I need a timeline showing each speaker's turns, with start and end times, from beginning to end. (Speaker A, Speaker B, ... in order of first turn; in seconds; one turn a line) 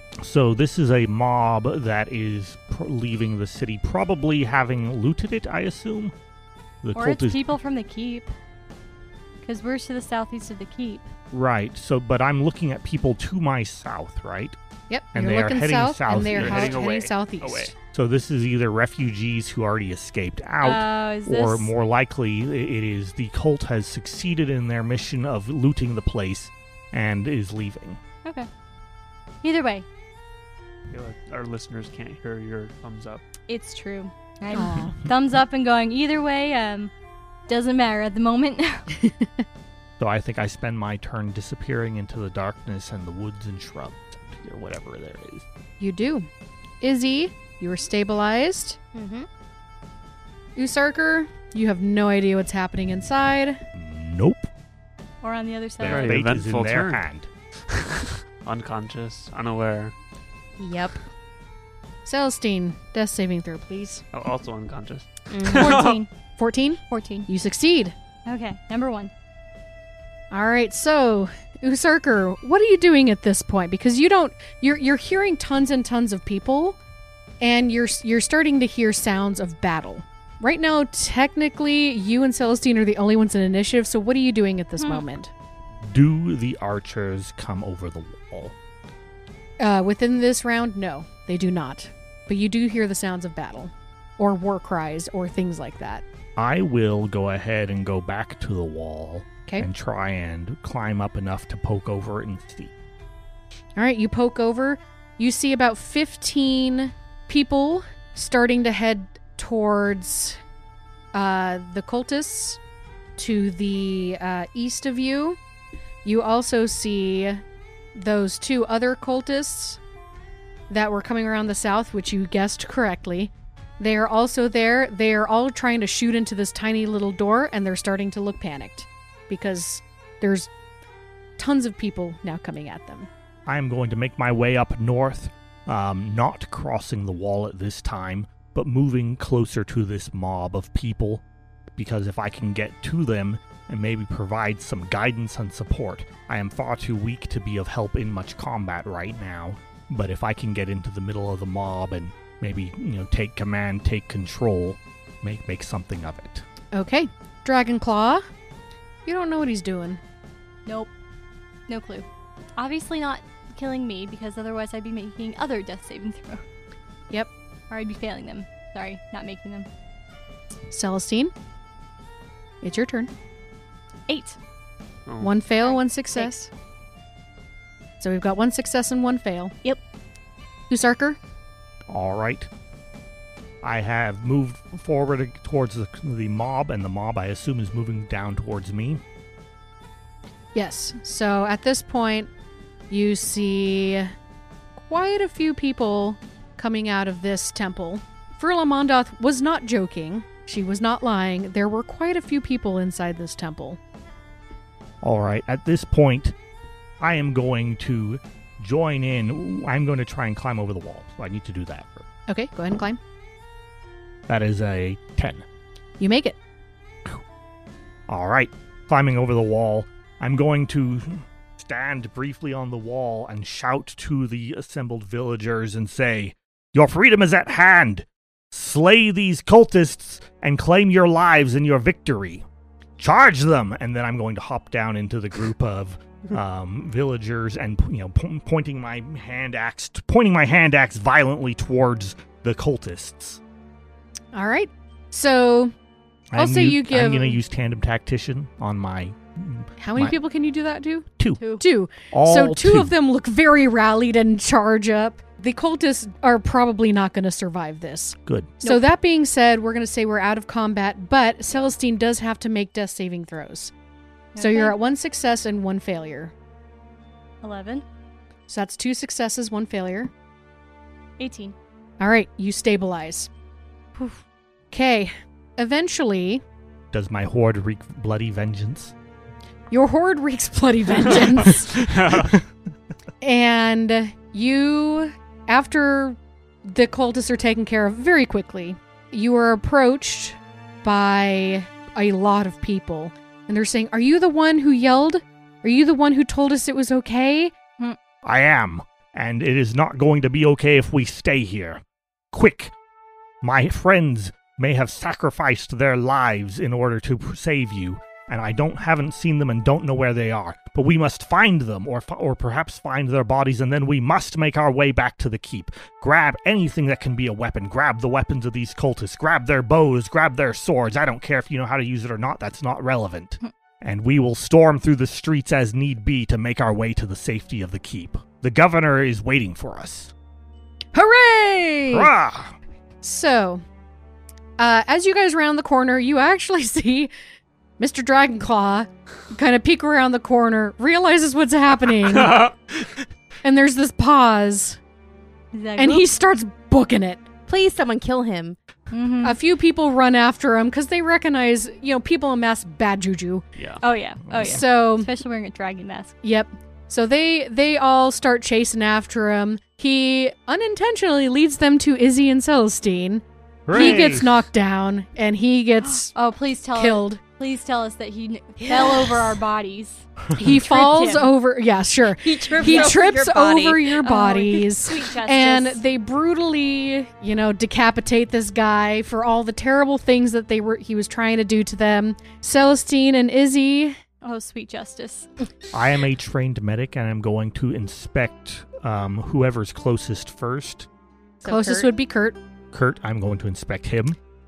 Speaker A: 0.2-6.1
Speaker A: 6.8-7.5
Speaker B: 7.0-8.3
Speaker B: 9.4-11.1
Speaker A: 11.3-14.6
Speaker C: 14.9-17.7
Speaker A: 15.1-16.9
Speaker D: 16.1-17.7
Speaker A: 17.9-28.0
Speaker B: 20.6-21.7
Speaker B: 29.4-29.9
Speaker D: 30.9-33.2
Speaker B: 33.5-36.9
Speaker C: 34.5-35.0
Speaker B: 37.5-38.9
Speaker C: 39.0-39.4
Speaker A: 40.0-45.5
Speaker C: 45.8-46.3
Speaker C: 46.8-48.8
Speaker E: 48.9-49.3
Speaker C: 50.6-53.6
Speaker A: 53.8-54.5
Speaker B: 55.2-56.2
Speaker A: 55.8-57.3
Speaker D: 55.8-57.0
Speaker D: 57.7-59.9
Speaker E: 60.6-61.0
Speaker C: 62.0-64.0
Speaker D: 64.1-66.0
Speaker E: 65.3-65.8
Speaker B: 65.5-66.1
Speaker C: 65.5-68.0
Speaker B: 66.9-67.3
Speaker B: 68.3-69.1
Speaker C: 70.3-76.8
Speaker C: 77.4-85.3
Speaker B: 84.8-85.0
Speaker A: 85.8-88.5
Speaker C: 89.6-96.0
Speaker A: 96.4-102.7
Speaker C: 103.8-110.4
Speaker C: 111.1-112.6
Speaker C: 113.2-115.4
Speaker C: 116.0-117.4
Speaker C: 118.0-119.8
Speaker C: 120.7-130.5
Speaker C: 131.4-133.1
Speaker A: 133.5-141.2
Speaker A: 141.8-156.4
Speaker C: 156.7-158.2
Speaker C: 159.1-160.0
Speaker B: 160.7-160.9
Speaker B: 161.7-162.1
Speaker B: 162.6-166.4
Speaker B: 167.7-169.7
Speaker C: 170.7-171.3
Speaker C: 172.6-173.1
Speaker B: 174.1-174.4
Speaker D: 175.1-175.3
Speaker C: 175.2-176.5
Speaker B: 175.6-176.3
Speaker C: 178.0-179.6
Speaker C: 180.7-181.2
Speaker A: 181.9-182.5
Speaker A: 183.6-189.0
Speaker C: 190.5-192.3
Speaker C: 192.9-194.1
Speaker C: 194.8-203.8
Speaker A: 205.0-206.3
Speaker A: 207.0-212.1
Speaker C: 212.3-213.0
Speaker A: 214.3-215.4
Speaker C: 216.0-216.4
Speaker A: 218.1-232.4
Speaker A: 233.0-243.4
Speaker C: 244.3-245.7
Speaker A: 246.3-250.2
Speaker C: 246.4-247.4
Speaker C: 249.8-251.1
Speaker B: 251.4-251.6
Speaker C: 251.6-263.7
Speaker A: 252.1-252.9
Speaker A: 258.3-258.6
Speaker B: 258.6-258.9
Speaker B: 264.3-264.8
Speaker C: 264.4-266.3
Speaker B: 267.4-267.9
Speaker C: 268.5-270.1
Speaker B: 271.2-271.6
Speaker C: 272.0-273.3
Speaker B: 274.0-274.2
Speaker C: 274.7-276.4
Speaker A: 276.9-278.9
Speaker C: 279.7-281.9
Speaker A: 281.7-282.4
Speaker D: 281.8-282.3
Speaker C: 283.2-297.6
Speaker A: 298.2-302.7
Speaker A: 303.4-330.1
Speaker C: 330.9-332.1
Speaker A: 331.9-332.6
Speaker C: 333.0-333.6
Speaker C: 334.6-337.1
Speaker C: 337.8-342.5
Speaker D: 342.1-342.9
Speaker C: 343.4-344.8
Speaker B: 345.5-346.1
Speaker C: 345.8-347.3
Speaker E: 347.5-348.6
Speaker B: 348.9-349.4
Speaker C: 349.2-353.4
Speaker D: 353.6-353.8
Speaker B: 353.8-356.2
Speaker A: 354.2-354.6
Speaker C: 354.4-355.1
Speaker C: 356.2-366.1
Speaker A: 363.7-364.4
Speaker B: 363.7-364.2
Speaker B: 365.8-371.3
Speaker C: 366.8-367.2
Speaker E: 368.6-369.4
Speaker C: 370.4-384.0
Speaker E: 372.2-374.0
Speaker B: 374.0-375.8
Speaker B: 384.2-385.3
Speaker A: 385.7-390.9
Speaker E: 391.4-391.9
Speaker C: 391.4-392.4
Speaker A: 392.7-394.2